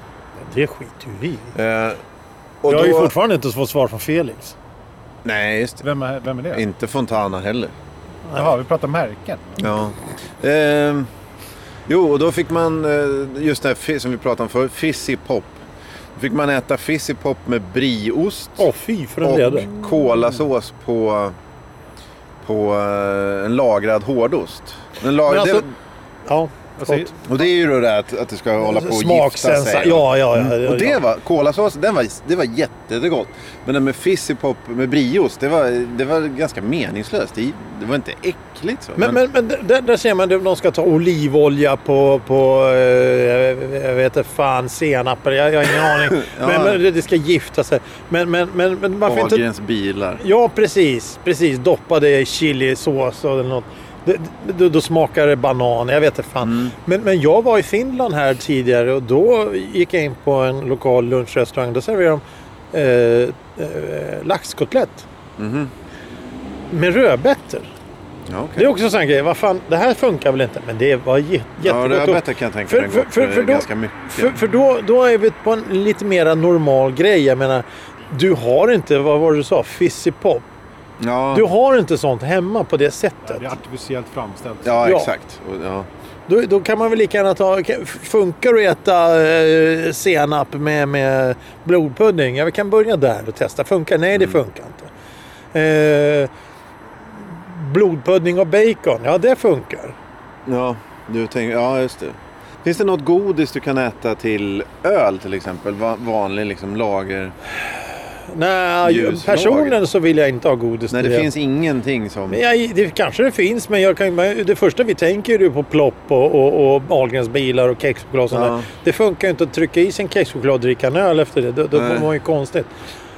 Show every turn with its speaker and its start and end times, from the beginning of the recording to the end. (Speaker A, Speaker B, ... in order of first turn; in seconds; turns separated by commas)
Speaker A: 0.4-1.5, Speaker B: 1.5-2.0, Speaker B: 2.6-3.1, Speaker A: 2.7-4.5, Speaker B: 5.2-5.8, Speaker C: 5.8-6.6, Speaker B: 6.5-7.7, Speaker C: 8.3-9.6, Speaker B: 9.6-11.1, Speaker B: 11.9-15.6, Speaker B: 16.1-18.7, Speaker A: 18.6-19.7, Speaker B: 19.2-21.4, Speaker B: 22.4-25.7, Speaker A: 25.2-25.6, Speaker A: 26.2-27.1, Speaker C: 26.8-27.1, Speaker B: 27.3-39.2, Speaker A: 28.6-31.0, Speaker A: 39.0-49.4, Speaker B: 45.9-46.8, Speaker B: 49.0-50.2, Speaker A: 50.2-65.0, Speaker B: 56.4-56.7, Speaker B: 65.4-65.7, Speaker A: 66.7-67.7, Speaker B: 68.3-68.7, Speaker A: 68.5-80.5, Speaker B: 71.6-74.3, Speaker B: 81.0-81.5, Speaker A: 81.3-83.5, Speaker C: 83.2-84.9, Speaker B: 84.6-85.9, Speaker A: 84.8-85.1, Speaker A: 86.3-94.9, Speaker A: 95.5-96.3, Speaker A: 97.2-100.0, Speaker B: 100.5-107.3, Speaker A: 108.3-111.3, Speaker B: 108.8-109.8, Speaker B: 110.9-112.4, Speaker A: 112.3-122.7, Speaker B: 118.3-118.7, Speaker B: 121.7-122.1